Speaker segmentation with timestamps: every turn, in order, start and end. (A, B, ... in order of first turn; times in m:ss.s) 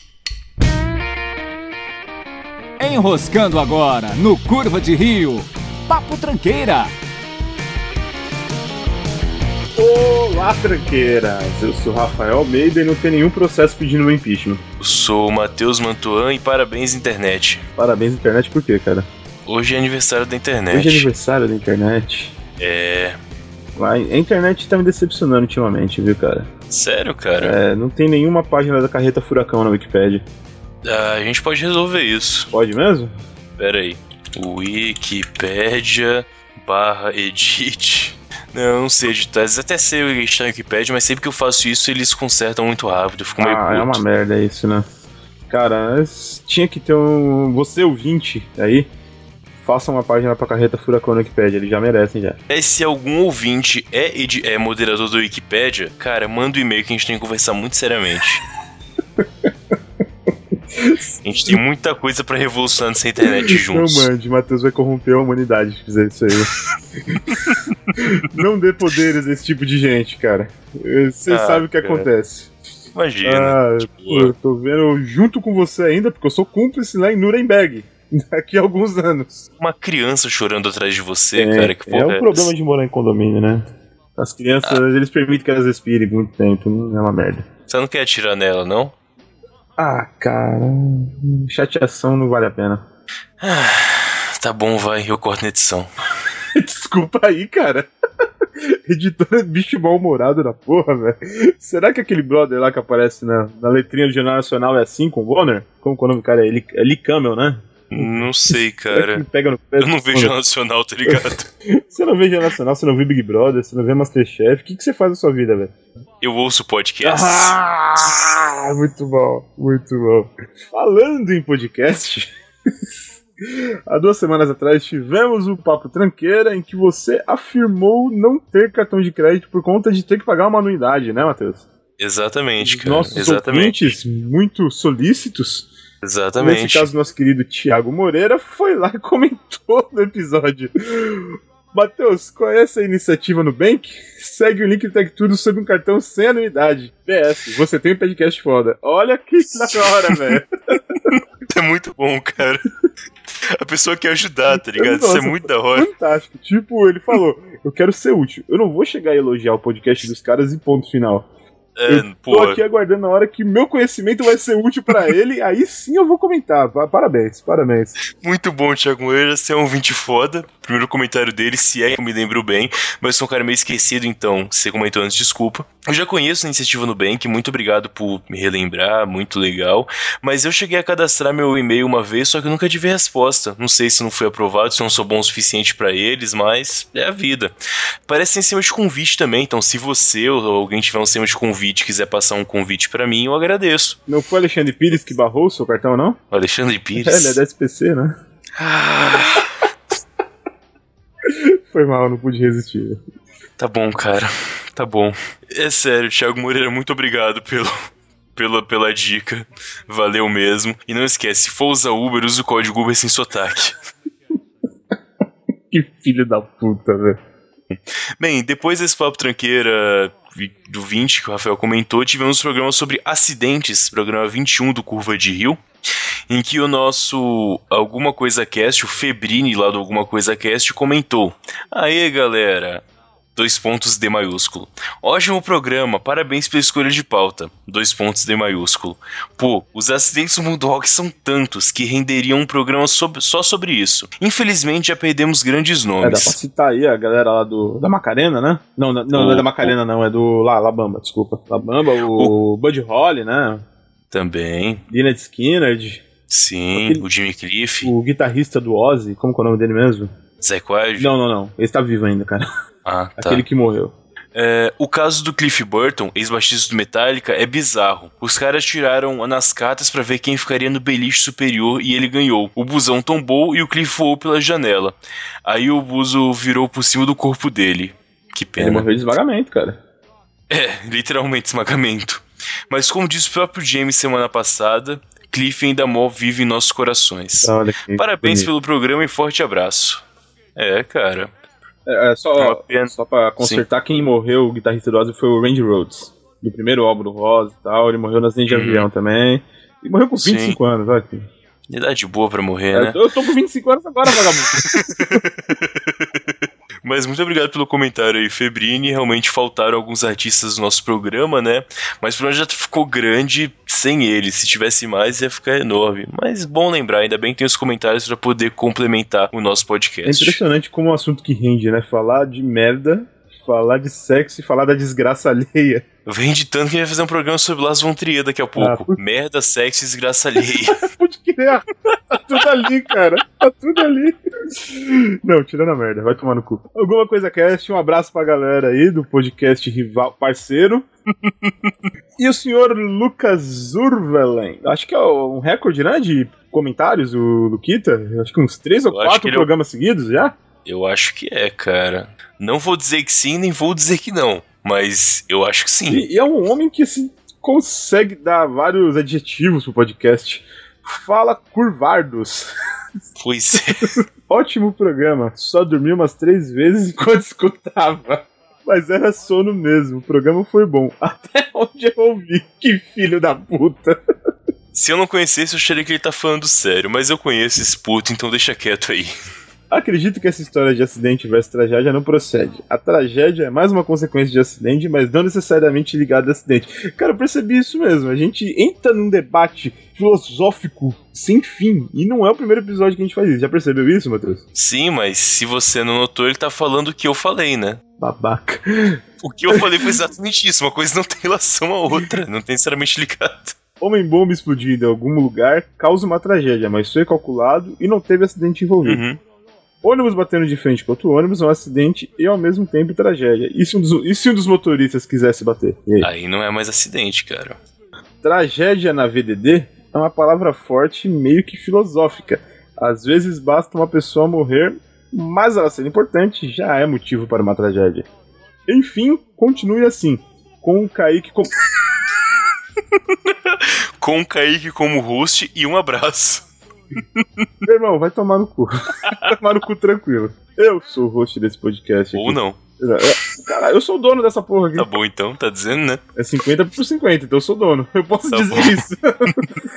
0:02.8-0:06.9 A
0:09.8-0:14.6 B
0:14.8-0:17.6 C
0:17.8-0:19.1 B
0:19.4-0:21.1 C
0:20.7-0:22.3 B
0:22.6-0:23.2 C
0:23.8-0:26.5 B
0:26.7-0:27.6 C
0:27.4-0:30.2 B
0:30.8-0:32.5 C
0:32.5-0:33.1 B
0:33.6-0:44.0 C
0:43.4-0:44.8 B
0:45.5-0:48.9 B
0:49.6-0:52.4 B
0:52.5-0:58.4 C
1:00.7-1:01.6 B
1:01.2-1:04.1 C
1:03.2-1:06.5 B
1:07.1-1:12.5 B
1:11.3-1:12.1 C
1:12.9-1:14.3 C
1:13.2-1:19.4 B
1:19.6-1:22.5 C
1:21.3-1:27.4 B
1:27.7-1:28.9 C
1:29.8-1:32.8 B
1:33.4-1:35.9 C
1:36.5-1:37.9 B
1:38.6-1:50.3 B
1:47.9-1:49.2 C
1:49.8-1:51.5 C
1:51.0-1:55.7 B
1:56.2-1:57.6 C
1:57.0-2:02.3 B
2:03.4-2:11.7 B
2:12.0-2:14.0 C
2:12.6-2:15.7 B
2:16.0-2:16.9 C
2:16.4-2:30.5 B
2:29.7-2:30.4 C
2:31.1-2:32.7 C
2:33.5-2:35.9 C
2:34.5-2:41.3 B
2:41.8-2:42.6 C
2:41.9-2:48.0 B
2:48.2-3:07.5 C
3:08.1-3:14.0 C
3:14.1-3:16.2 B
3:16.3-3:17.4 C
3:17.0-3:18.2 B
3:18.6-3:19.5 C
3:21.2-3:23.0 B
3:23.6-3:27.8 C
3:28.4-3:33.7 C
3:35.7-3:37.2 B
3:37.7-3:45.6 C
3:46.3-3:52.8 C
3:53.4-4:06.4 C
4:06.0-4:13.6 B
4:09.1-4:09.7 C
4:14.1-4:14.8 C
4:14.9-4:16.0 B
4:16.3-4:17.9 C
4:16.7-4:17.0 B
4:17.8-4:20.1 B
4:20.4-4:21.1 C
4:21.0-4:22.5 B
4:22.8-4:23.4 C
4:23.2-4:23.9 B
4:24.3-4:38.9 C
4:38.6-4:39.8 B
4:40.5-4:50.0 C
4:47.4-4:48.5 B
4:50.6-4:51.3 C
4:51.8-5:01.3 B
4:52.4-4:53.6 C
4:58.5-4:58.9 C
5:00.2-5:00.6 C
5:01.7-5:03.0 C
5:02.7-5:05.2 B
5:04.1-5:06.2 C
5:06.8-5:20.4 C
5:20.0-5:25.8 B
5:26.0-5:30.8 C
5:28.6-5:29.0 B
5:30.5-5:40.9 B
5:41.2-5:41.7 C
5:42.2-5:50.4 B
5:48.9-5:49.5 C
5:50.6-5:56.0 C
5:55.9-6:02.5 B
6:03.2-6:03.9 C
6:03.5-6:14.0 B
6:14.7-6:19.1 C
6:19.7-6:34.4 B
6:34.5-6:37.8 C
6:38.0-6:39.9 B
6:39.2-6:43.6 C
6:43.8-6:49.0 B
6:48.8-6:49.2 C
6:49.8-6:56.1 B
6:56.0-6:57.6 C
6:58.2-7:08.1 B
7:08.7-7:11.5 B
7:13.0-7:16.5 C
7:17.2-7:17.4 C
7:17.6-7:24.9 B
7:19.0-7:19.3 C
7:22.1-7:22.6 C
7:24.8-7:26.0 C
7:26.2-7:29.4 B
7:28.3-7:29.3 C